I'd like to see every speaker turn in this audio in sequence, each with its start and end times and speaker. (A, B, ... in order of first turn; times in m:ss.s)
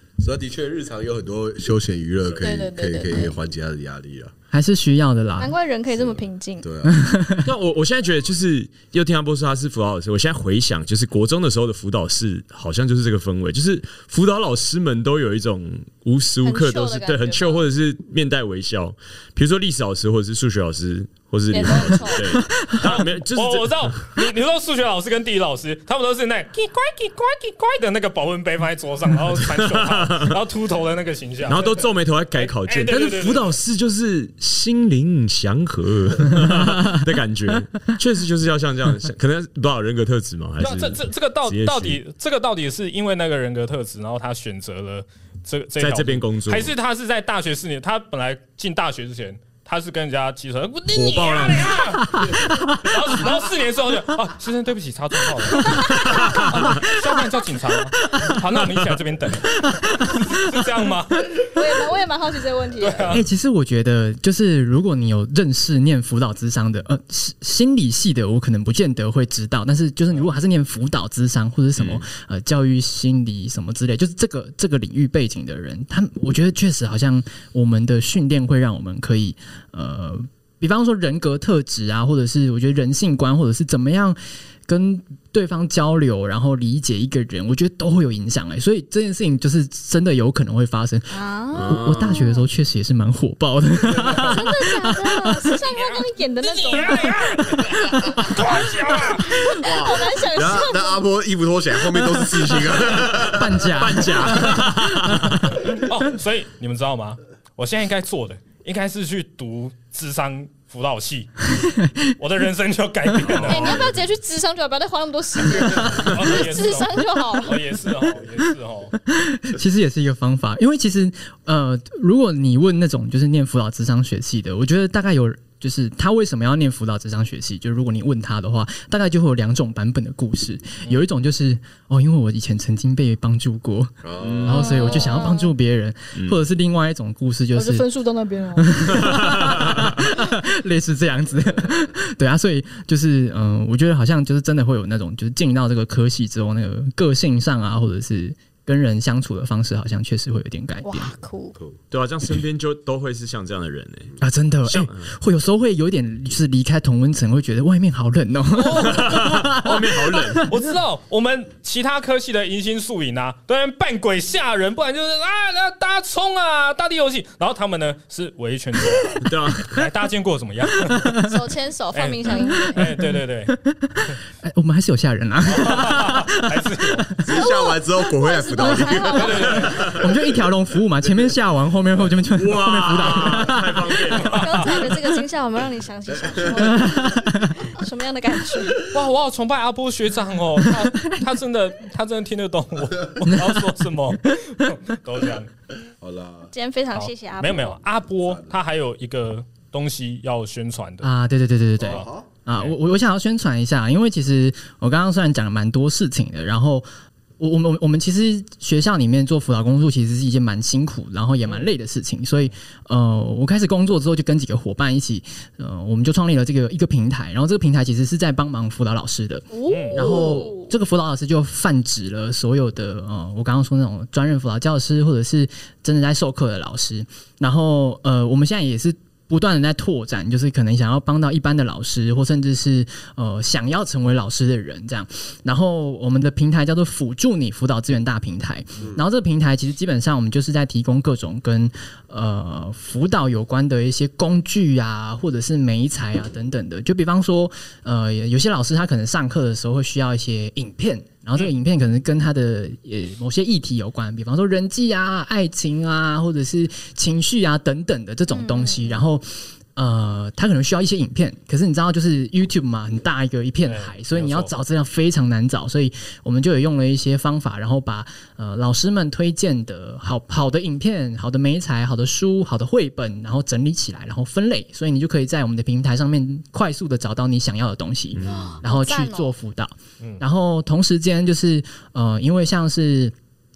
0:00.2-0:04.3 A
0:02.4-0:03.4 B
0:04.5-0:05.6 C
0:05.4-0:06.7 B
0:05.9-0:07.0 A
0:06.8-0:07.5 C
0:07.4-0:24.0 D
0:16.4-0:17.6 B
0:21.5-0:22.4 B
0:22.4-0:22.8 C
0:22.7-0:33.6 E
0:29.4-0:30.4 D
0:31.5-0:42.0 D
0:40.6-1:01.4 E
0:45.8-0:46.7 D
0:50.9-0:51.7 D
0:52.0-0:53.1 C
0:55.6-0:56.5 B
0:55.7-0:57.2 C
0:56.1-0:56.7 D
0:58.0-0:58.3 C
0:59.6-1:00.2 C
1:01.4-1:03.2 B
1:02.8-1:03.2 E
1:03.1-1:35.6 C
1:11.8-1:12.0 D
1:31.1-1:32.5 B
1:31.6-1:32.2 D
1:34.1-1:37.1 B
1:35.6-1:39.4 E
1:39.1-1:41.0 B
1:39.6-1:43.7 A
1:43.0-1:45.5 D
1:43.2-1:45.7 C
1:45.5-1:51.5 E
1:51.5-1:52.1 C
1:52.2-1:53.8 E
1:53.4-1:57.6 B
1:53.5-1:53.8 A
1:55.6-1:59.0 E
1:59.0-2:17.9 C
2:14.0-2:14.6 A
2:14.2-2:14.8 D
2:14.5-2:15.5 B
2:16.1-2:16.4 D
2:17.5-2:19.1 B
2:18.6-2:31.1 C
2:18.9-2:20.0 D
2:30.8-2:31.6 B
2:31.9-2:34.1 D
2:34.2-2:40.5 C
2:34.7-2:35.1 D
2:38.5-2:39.8 E
2:38.8-2:40.5 D
2:40.4-2:51.2 E
2:49.2-2:49.8 D
2:51.2-2:52.9 B
2:52.0-2:53.5 E
2:52.4-2:57.4 C
2:55.5-2:57.1 E
2:57.2-3:00.0 A
2:57.3-2:59.9 B
2:59.1-2:59.9 E
2:59.6-3:00.0 D
2:59.9-3:03.9 C
3:02.3-3:04.6 D
3:04.1-3:04.9 E
3:04.1-3:08.9 B
3:06.3-3:07.0 A
3:06.7-3:07.5 C
3:08.9-3:15.5 E
3:10.8-3:11.1 C
3:13.3-3:13.6 C
3:16.0-3:16.5 A
3:16.5-3:17.8 B
3:16.9-3:21.1 E
3:18.3-3:18.5 A
3:21.0-3:26.9 C
3:21.8-3:22.3 A
3:21.8-3:22.8 E
3:27.4-4:43.1 C
3:39.5-3:40.7 B
3:39.7-3:40.2 E
4:18.3-4:19.0 B
4:23.6-4:24.5 E
4:38.1-4:38.6 D
4:38.2-4:39.3 B